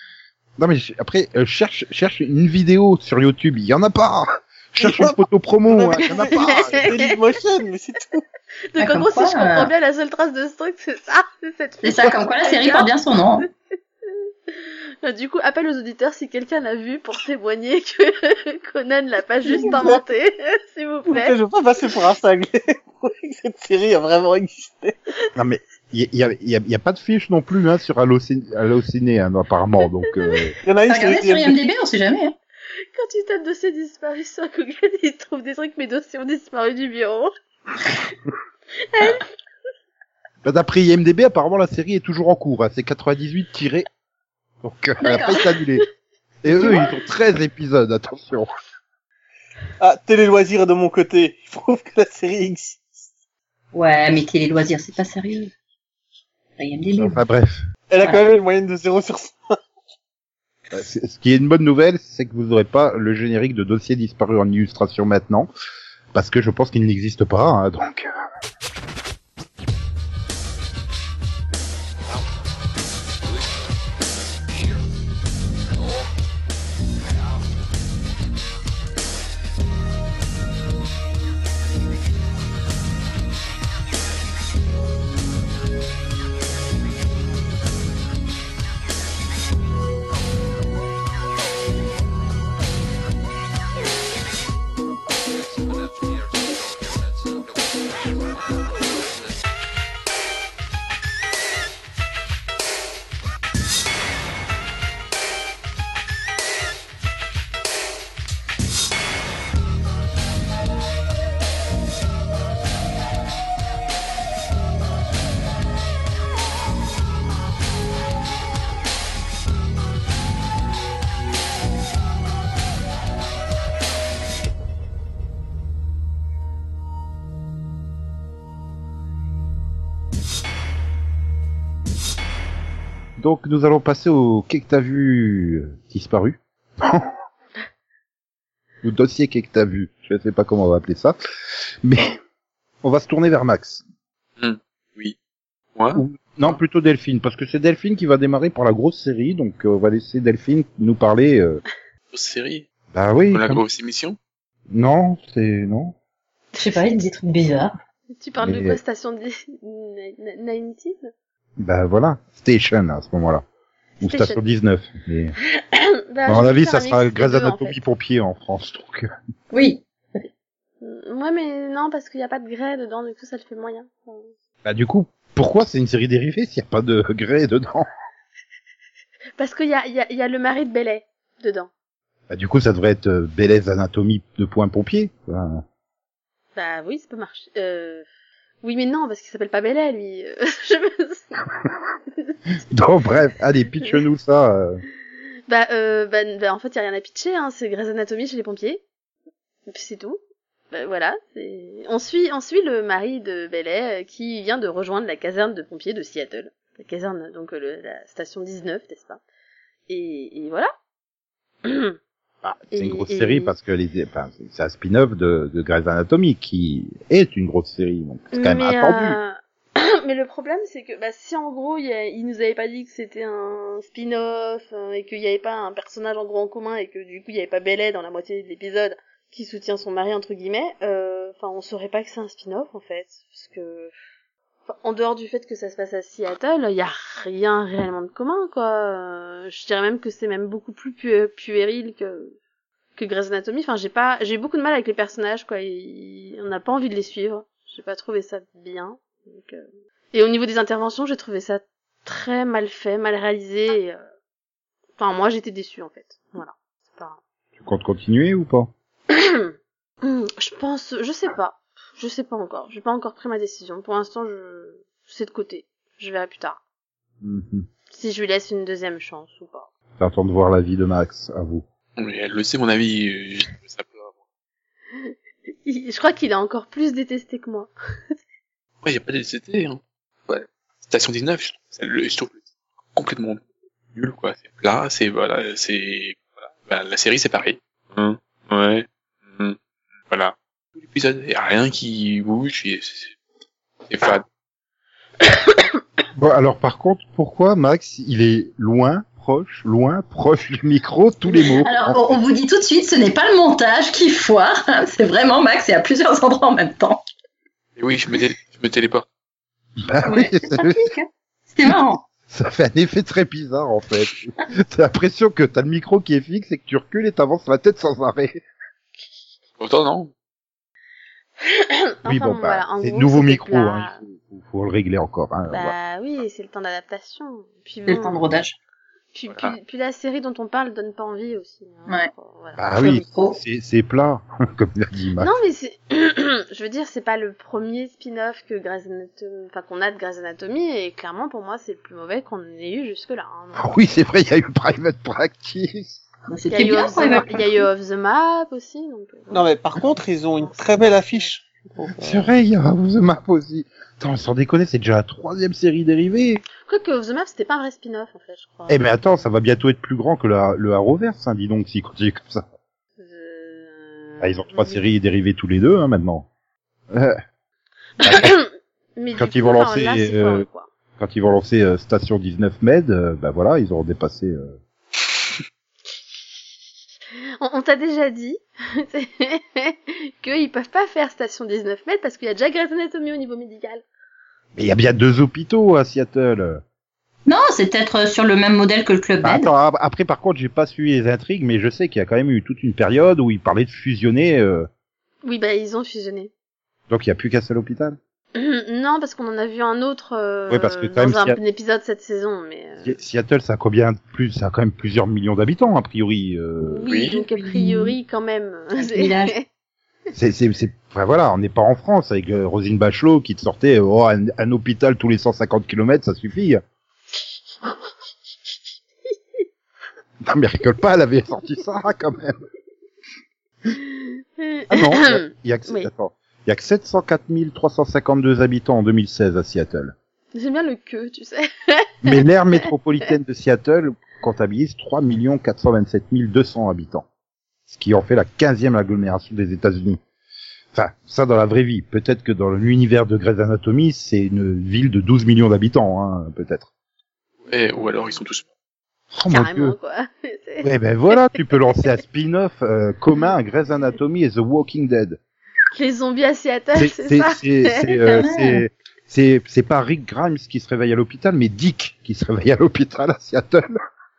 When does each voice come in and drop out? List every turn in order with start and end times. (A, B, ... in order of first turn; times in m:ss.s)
0:00.6-0:06.9 A
0:04.8-0:08.2 B
0:06.2-0:07.2 C
0:08.7-0:12.9 C
0:08.8-0:09.7 D
0:11.8-0:13.4 D
0:14.6-0:21.4 C
0:19.5-0:19.9 D
0:21.1-0:25.0 B
0:25.4-0:30.6 A
0:30.6-0:31.6 B
0:30.9-0:32.4 D
0:32.9-0:37.3 C
0:39.0-0:39.2 C
0:40.4-0:43.9 A
0:44.6-0:45.8 A
0:45.0-0:45.5 D
0:46.4-0:48.5 A
0:49.8-0:52.9 B
0:53.7-0:55.5 D
0:56.6-0:57.2 D
0:57.0-0:57.6 A
0:57.9-0:59.4 B
1:00.7-1:05.5 A
1:06.1-1:08.1 A
2:13.2-2:17.1 A
2:18.8-2:21.2 A
2:21.8-2:22.2 A
2:22.8-2:23.8 A
2:24.4-2:25.2 E
2:25.8-2:26.6 E
2:26.0-2:31.6 A
2:32.1-2:32.7 E
2:32.9-2:33.6 A
2:33.3-2:34.2 E
2:34.7-2:36.0 A
2:36.6-2:37.7 D
2:38.2-2:41.1 C
2:38.4-2:38.8 A
2:41.6-2:43.4 A
2:44.0-2:45.3 A
2:44.0-2:44.4 C
2:45.6-2:47.8 C
2:46.3-2:49.1 A
2:49.5-2:50.3 D
2:50.8-2:54.3 C
2:54.6-2:57.9 A
2:59.4-3:01.7 C
3:02.3-3:05.6 A
3:06.6-3:08.1 C
3:08.6-3:11.4 C
3:12.7-3:14.8 A
3:15.5-3:18.8 C
3:19.7-3:20.2 C
3:20.7-3:29.2 C
3:29.9-3:30.7 C
3:31.6-3:32.0 C
3:32.4-3:39.2 A
3:32.7-3:33.5 C
3:38.3-3:53.9 C
3:54.7-4:02.4 C
4:03.0-4:14.0 C
4:15.0-4:17.2 C
4:17.6-4:18.7 A
4:19.1-4:26.6 C
4:27.2-4:27.7 A
4:27.9-4:29.7 C
4:30.0-4:31.6 A
4:32.0-4:34.1 E
4:35.7-4:37.7 C
4:38.8-4:42.4 E
4:43.0-4:43.4 E
4:44.0-4:49.6 E
4:50.1-4:53.1 E
4:53.9-4:54.2 E
4:56.2-5:02.2 A
5:01.3-5:07.0 D
5:07.8-5:09.0 E
5:09.8-5:10.9 A
5:10.1-5:12.0 D
5:12.3-5:18.4 A
5:19.6-5:20.1 E
5:21.4-5:24.0 C
5:22.1-5:25.8 A
5:25.5-5:28.2 C
5:27.9-5:28.6 D
5:29.1-5:32.7 C
5:29.3-5:29.6 E
5:32.6-5:35.4 A
5:32.8-5:33.4 D
5:35.2-5:43.8 C
5:43.6-5:46.0 A
5:46.3-5:47.7 D
5:46.5-5:49.5 C
5:49.3-5:52.3 B
5:50.4-5:51.3 C
5:52.0-5:56.4 A
5:56.6-5:58.9 C
5:58.7-6:02.4 A
6:03.0-6:04.8 C
6:04.2-6:06.3 A
6:06.9-6:07.2 A
6:08.0-6:08.4 A
6:08.0-6:10.7 C
6:09.2-6:10.5 A
6:11.0-6:14.6 A
6:17.4-6:23.8 C
6:24.6-6:26.6 A
6:27.3-6:29.5 D
6:29.2-6:34.7 A
6:35.2-6:36.3 C
6:36.9-6:38.0 A
6:38.4-6:43.0 C
6:40.5-6:41.4 A
6:42.8-6:46.9 A
6:46.7-6:49.4 C
6:47.1-6:48.0 D
6:48.8-6:49.3 D
6:50.1-6:56.6 A
7:00.2-7:02.4 A
7:03.9-7:05.9 C
7:04.7-7:09.9 A
7:10.3-7:12.7 C
7:12.0-7:17.0 A
7:17.7-7:20.0 A
7:20.7-7:26.7 A
7:27.5-7:28.5 E
7:29.1-7:29.8 A
7:29.3-7:31.3 C
7:30.6-7:35.2 A
7:35.7-7:37.9 C
7:36.8-7:43.7 A
7:38.0-7:38.6 D